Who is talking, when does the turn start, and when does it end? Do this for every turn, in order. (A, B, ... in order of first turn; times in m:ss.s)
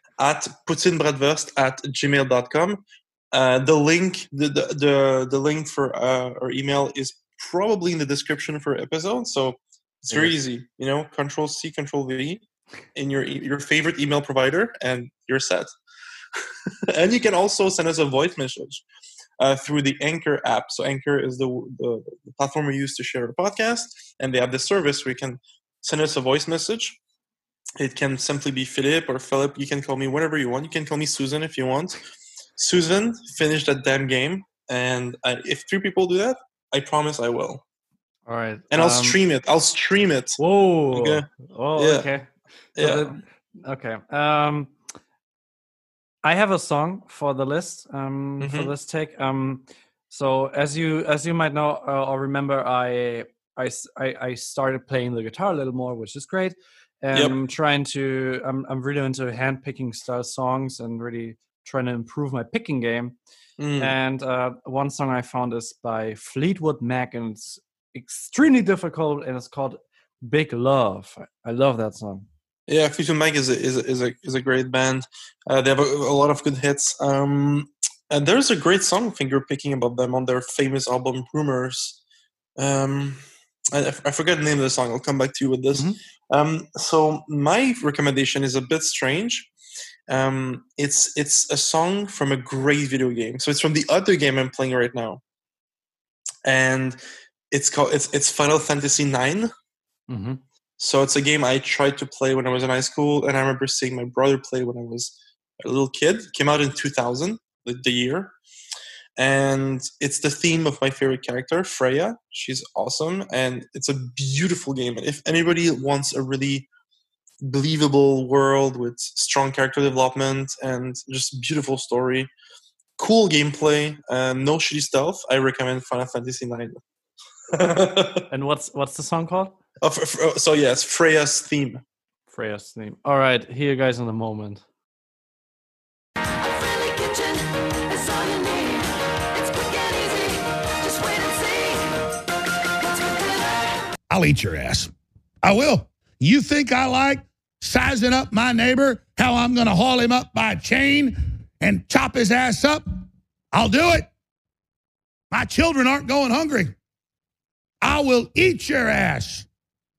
0:00.2-0:12.4 A
0:10.1-0:10.4 B
0:13.0-0:15.8 A
0:16.4-0:18.8 A
0:19.4-0:27.0 A
0:27.8-0:32.0 A
0:32.6-0:37.6 A
0:38.3-0:39.2 B
0:38.7-0:40.4 A
0:40.4-0:44.7 B
0:40.9-0:42.1 A
0:42.8-0:43.1 A
0:46.2-1:03.2 B
0:48.4-0:48.7 A
1:03.6-1:04.0 A
1:03.8-1:12.3 B
1:12.7-1:22.0 A
1:22.6-1:29.5 A
1:30.1-1:35.2 A
1:36.5-1:37.0 A
1:37.5-1:39.5 A
1:40.1-1:40.4 B
1:40.8-1:48.4 A
1:49.2-1:56.7 A
1:57.4-2:02.3 A
2:03.0-2:06.8 A
2:07.5-2:08.3 A
2:08.3-2:09.6 B
2:09.8-2:11.8 A
2:12.3-2:14.6 B
2:16.4-2:22.0 C
2:22.8-2:23.8 C
2:24.1-2:24.9 D
2:25.4-2:32.8 D
2:33.5-2:34.1 D
2:35.3-2:36.8 D
2:37.8-2:39.5 D